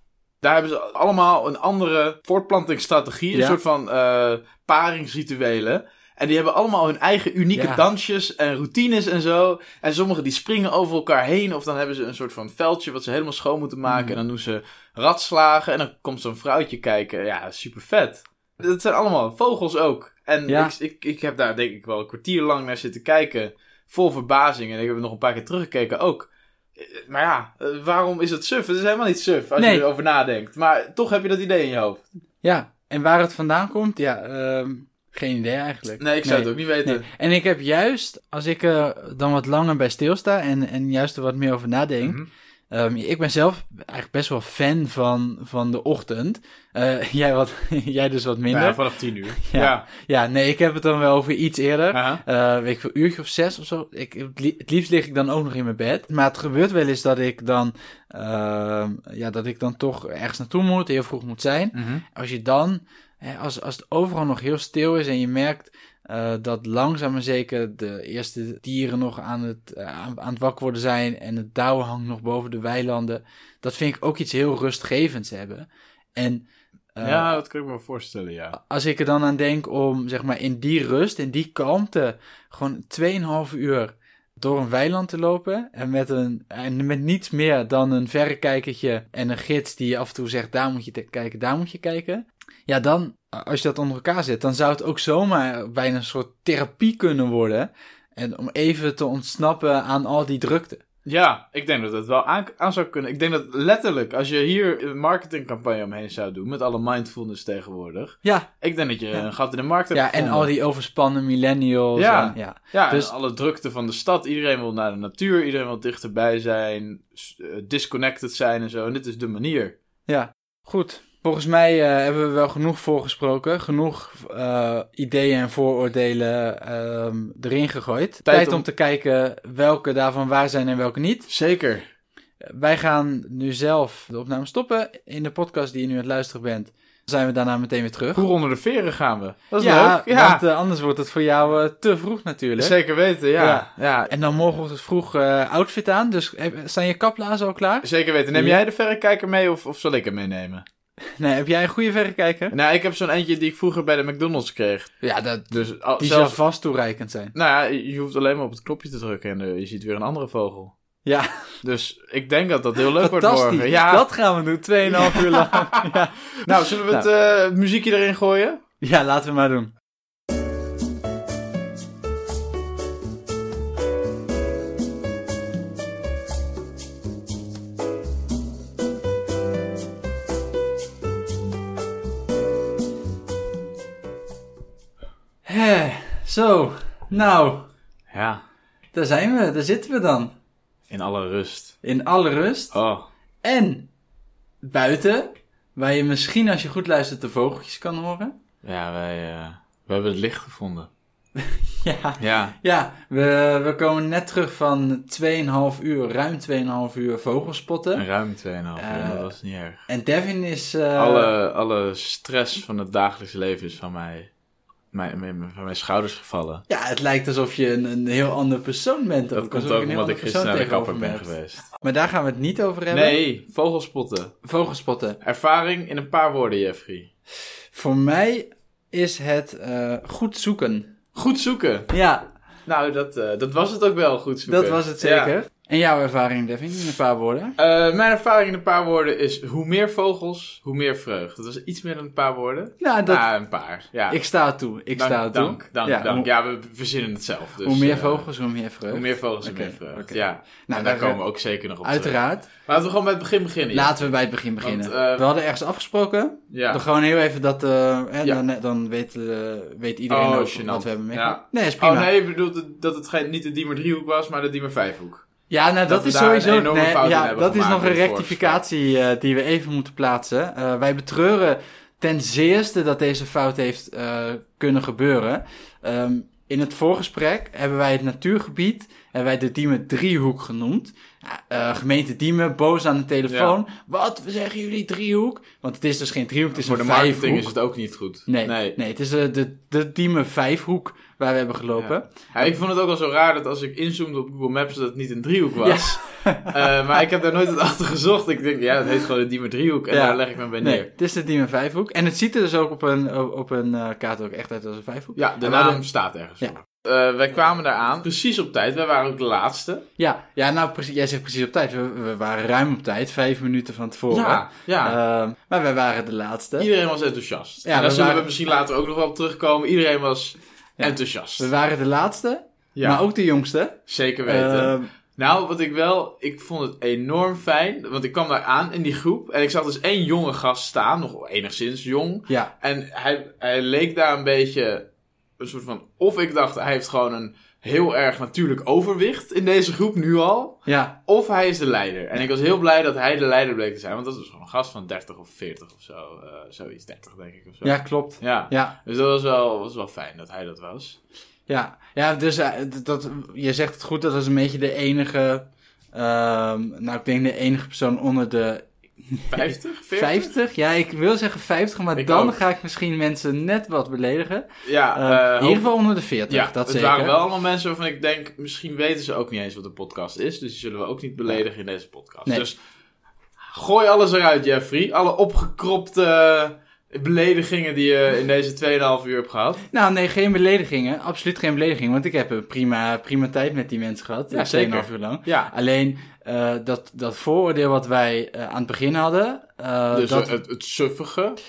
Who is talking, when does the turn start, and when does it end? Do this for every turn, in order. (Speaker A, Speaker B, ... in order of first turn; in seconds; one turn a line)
Speaker A: 0.4-32.0
Speaker B: 3.3-3.6
Speaker B: 7.5-7.8
Speaker B: 13.9-14.2
Speaker B: 20.5-20.7
Speaker B: 29.6-29.9
Speaker B: 32.4-77.4
Speaker A: 36.0-37.0
Speaker A: 42.0-42.3
Speaker A: 48.5-49.9
Speaker A: 51.9-52.2
Speaker A: 61.7-62.0
Speaker A: 77.0-78.5
Speaker B: 78.5-100.8
Speaker A: 101.0-110.5
Speaker B: 109.9-113.1
Speaker A: 112.0-119.8
Speaker B: 120.1-131.3
Speaker A: 128.3-128.6
Speaker A: 131.3-131.8
Speaker B: 132.4-138.2
Speaker A: 138.2-140.4
Speaker B: 139.6-142.8
Speaker A: 142.6-144.1
Speaker B: 143.4-148.6
Speaker A: 147.8-150.7
Speaker B: 151.2-152.6
Speaker A: 152.5-154.9
Speaker B: 155.0-157.3
Speaker A: 155.5-156.4
Speaker A: 157.3-160.7
Speaker A: 161.6-164.1
Speaker B: 163.0-167.1
Speaker A: 164.8-168.6
Speaker B: 168.8-169.7
Speaker B: 185.4-187.7
Speaker A: 188.1-188.4
Speaker B: 188.9-190.3
Speaker A: 190.9-191.8
Speaker B: 191.8-192.8
Speaker A: 192.7-193.1
Speaker B: 193.4-193.9
Speaker B: 194.6-198.4
Speaker A: 198.6-200.9
Speaker B: 201.4-208.0
Speaker A: 202.2-202.6
Speaker A: 207.9-209.8
Speaker B: 208.8-209.3
Speaker B: 209.9-211.3
Speaker A: 211.0-214.3
Speaker A: 214.9-216.6
Speaker B: 216.7-223.2
Speaker A: 219.3-221.7
Speaker A: 222.9-224.3
Speaker B: 224.4-225.2
Speaker A: 225.2-227.1
Speaker B: 227.7-230.9
Speaker A: 231.2-231.9
Speaker B: 231.9-232.3
Speaker A: 232.7-235.3
Speaker B: 234.5-237.6
Speaker A: 237.6-244.2
Speaker B: 242.8-243.3
Speaker B: 244.1-246.3
Speaker A: 245.0-248.3
Speaker B: 247.6-251.2
Speaker A: 248.9-254.0
Speaker B: 251.8-252.5
Speaker B: 253.7-262.1
Speaker A: 254.6-255.2
Speaker A: 256.5-256.8
Speaker A: 260.1-265.2
Speaker B: 265.5-287.5
Speaker A: 265.9-268.6
Speaker A: 283.3-283.5
Speaker A: 286.6-288.8
Speaker B: 288.3-292.5
Speaker A: 291.8-300.9
Speaker B: 295.6-296.7
Speaker B: 299.9-305.8
Speaker A: 305.1-309.9
Speaker B: 310.0-316.7
Speaker A: 314.1-315.0
Speaker A: 316.6-321.5
Speaker B: 317.6-318.3
Speaker B: 320.8-324.9
Speaker A: 322.8-323.0
Speaker A: 323.9-351.0
Speaker B: 340.7-341.0
Speaker B: 347.6-348.8
Speaker B: 351.5-367.1
Speaker A: 359.3-360.3
Speaker A: 362.0-362.4
Speaker A: 364.6-365.7
Speaker A: 366.3-372.6
Speaker A: 373.4-379.6
Speaker B: 379.7-390.3
Speaker A: 384.3-385.5
Speaker A: 389.9-391.4